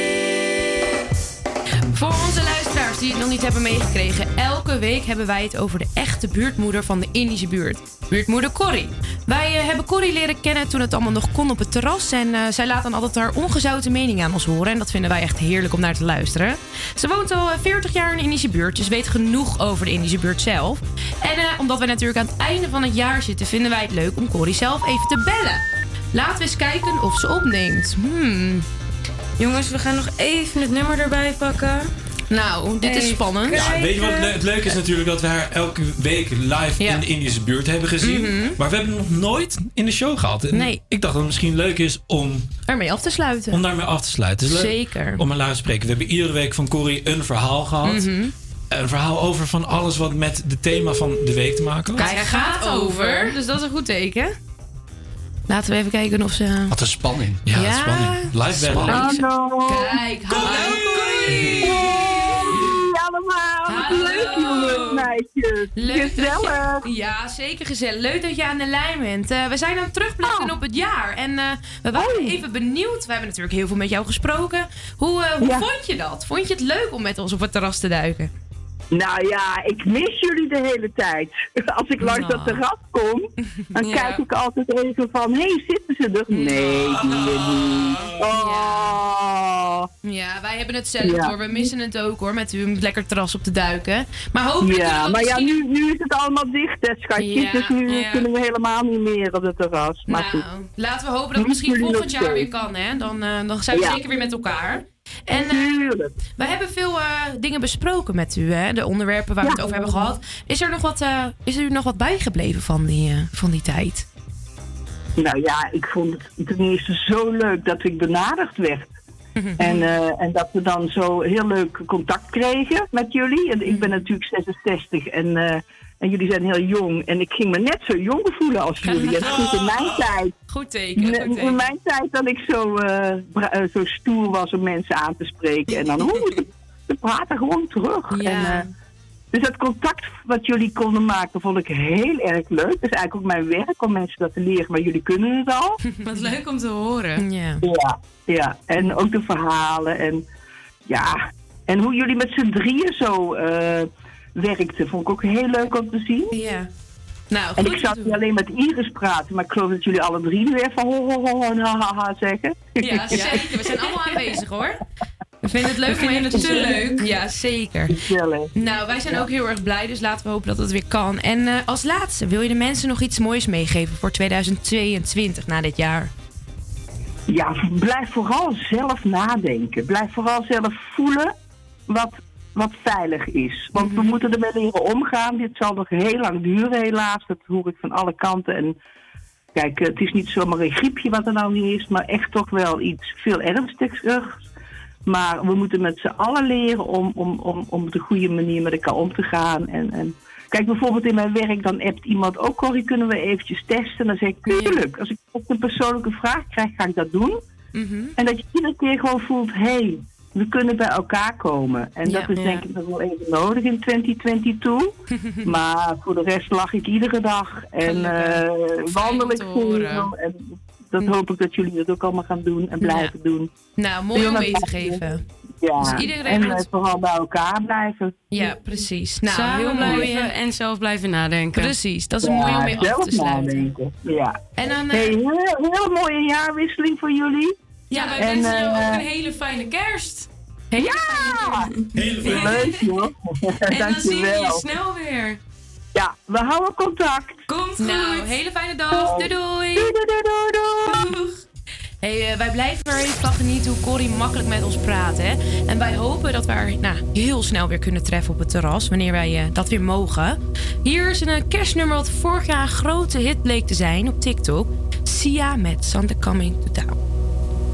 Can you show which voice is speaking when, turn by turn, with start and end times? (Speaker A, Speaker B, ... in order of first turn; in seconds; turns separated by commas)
Speaker A: 1.9-28.7, Speaker B: 29.4-31.9, Speaker A: 32.3-33.7, Speaker B: 32.8-34.3, Speaker C: 33.5-42.5, Speaker A: 38.0-38.6, Speaker A: 40.5-40.8, Speaker A: 42.7-43.6, Speaker C: 43.5-48.1, Speaker A: 44.5-45.2, Speaker A: 47.8-48.3, Speaker C: 48.7-52.1, Speaker B: 52.0-53.4, Speaker A: 52.0-54.3, Speaker A: 55.5-56.7, Speaker D: 56.7-59.0, Speaker C: 57.5-59.2, Speaker A: 57.6-58.3, Speaker A: 58.8-62.1, Speaker E: 58.9-60.0, Speaker B: 60.5-61.2, Speaker E: 61.5-66.8, Speaker A: 63.7-65.1, Speaker A: 65.8-78.3, Speaker E: 70.2-70.5, Speaker E: 72.0-72.4, Speaker E: 75.4-75.7, Speaker E: 78.9-89.9, Speaker A: 82.1-82.3, Speaker B: 82.2-82.5, Speaker B: 83.8-84.2, Speaker A: 88.3-88.9, Speaker A: 90.0-95.6, Speaker E: 91.0-91.3, Speaker E: 94.6-100.4, Speaker A: 97.2-98.3, Speaker A: 100.1-105.8, Speaker E: 101.4-102.5, Speaker E: 103.7-104.0, Speaker E: 105.3-106.1, Speaker A: 106.4-114.1, Speaker E: 109.4-110.0, Speaker E: 115.2-118.9, Speaker A: 119.4-119.9, Speaker E: 119.6-130.3, Speaker A: 128.9-129.6, Speaker A: 130.5-131.7, Speaker E: 131.0-138.7, Speaker A: 138.1-138.7, Speaker E: 139.3-145.8, Speaker B: 146.1-147.2, Speaker A: 147.2-147.6, Speaker E: 147.6-150.2, Speaker E: 150.9-156.3, Speaker A: 156.3-156.7, Speaker A: 157.3-158.2, Speaker E: 157.6-163.4, Speaker A: 162.8-164.8, Speaker A: 165.4-168.0, Speaker B: 166.2-166.8, Speaker E: 166.3-167.0, Speaker E: 167.9-168.5, Speaker A: 168.6-176.1, Speaker E: 177.3-181.3, Speaker E: 181.9-188.8, Speaker A: 183.8-184.2, Speaker E: 189.6-194.3, Speaker E: 195.1-207.4, Speaker A: 207.8-208.2, Speaker E: 208.2-214.9, Speaker B: 212.1-212.6, Speaker A: 215.2-215.4, Speaker E: 215.4-220.3, Speaker B: 217.9-218.4, Speaker B: 219.0-220.1, Speaker E: 220.9-223.5, Speaker A: 222.8-223.1, Speaker A: 223.8-225.2, Speaker E: 224.1-225.0, Speaker E: 225.6-228.2, Speaker A: 225.8-226.7, Speaker A: 228.3-230.3, Speaker B: 229.2-231.7, Speaker A: 231.6-233.7, Speaker E: 232.2-234.4, Speaker A: 234.6-235.2, Speaker E: 234.9-237.6, Speaker B: 237.9-240.3, Speaker A: 237.9-238.4, Speaker E: 238.2-239.0, Speaker A: 240.7-241.5, Speaker E: 240.8-241.7, Speaker C: 242.0-242.6, Speaker E: 242.2-244.6, Speaker B: 242.2-242.8, Speaker B: 243.7-245.4, Speaker E: 245.9-247.4, Speaker B: 247.5-248.4, Speaker A: 247.8-249.9, Speaker E: 248.9-251.1, Speaker B: 250.9-251.4, Speaker A: 252.0-267.0